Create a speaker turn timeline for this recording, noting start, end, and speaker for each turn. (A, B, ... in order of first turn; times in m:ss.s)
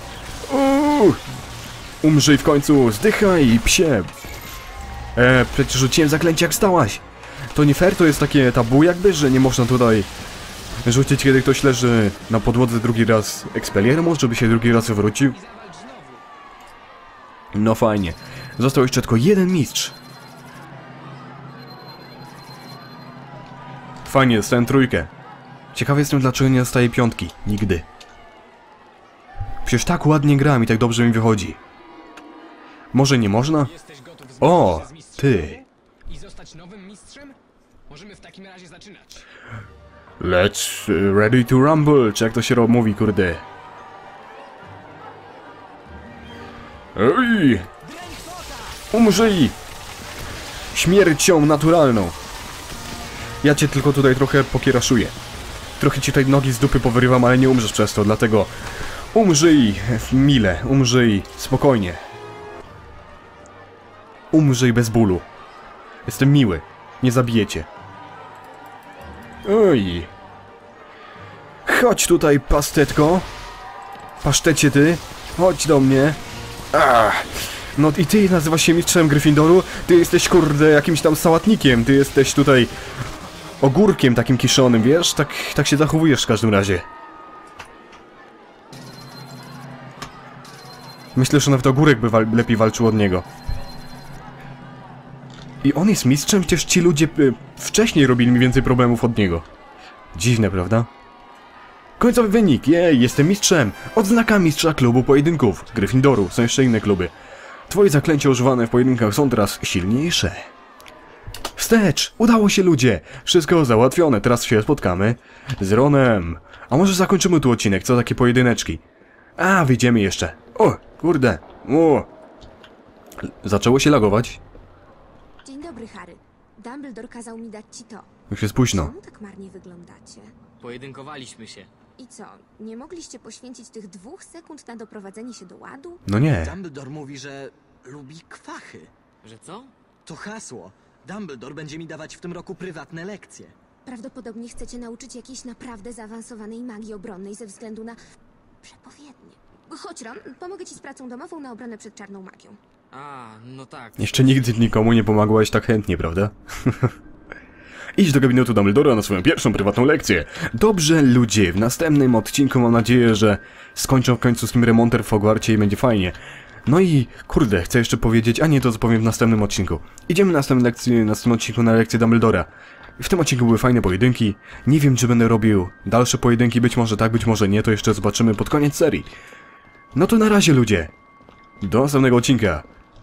0:00.4-0:01.2 A
0:02.0-0:04.1 A
0:05.2-0:07.0 A
0:07.5-0:10.1 A
0:10.8-0:15.4 A
0:14.9-0:16.2 B
0:17.5-0:19.9 A
0:24.0-0:25.1 A
0:25.7-0:27.8 A
0:29.6-0:31.6 A
0:32.9-0:33.7 A
0:33.6-0:37.4 B
0:34.4-0:35.6 A
0:37.9-0:39.2 B
0:40.2-0:43.4 A
0:46.9-0:47.7 A
0:47.8-0:48.8 B
0:48.9-0:49.6 A
0:50.7-0:52.2 A
0:53.4-0:55.1 A
0:55.8-0:58.5 A
0:59.1-1:02.0 A
1:04.3-1:05.2 A
1:06.0-1:07.7 A
1:09.4-1:10.1 A
1:11.6-1:13.3 A
1:14.2-1:16.2 A
1:16.7-1:22.7 A
1:23.6-1:26.8 A
1:31.2-1:33.3 A
1:35.6-1:39.4 A
1:40.1-1:40.9 A
1:42.0-1:47.1 A
1:47.7-1:50.5 A
1:51.5-1:58.8 A
1:59.4-2:02.1 A
2:03.2-2:04.4 A
2:05.4-2:08.1 C
2:08.3-2:08.9 A
2:08.7-2:10.4 C
2:10.6-2:11.7 D
2:12.0-2:16.0 C
2:16.1-2:16.5 A
2:16.4-2:18.9 E
2:19.2-2:19.7 D
2:20.0-2:23.5 E
2:23.8-2:28.0 C
2:28.6-2:32.6 C
2:32.9-2:34.5 D
2:34.0-2:36.9 A
2:38.0-2:59.1 A
2:59.9-3:00.9 A
3:01.6-3:02.6 A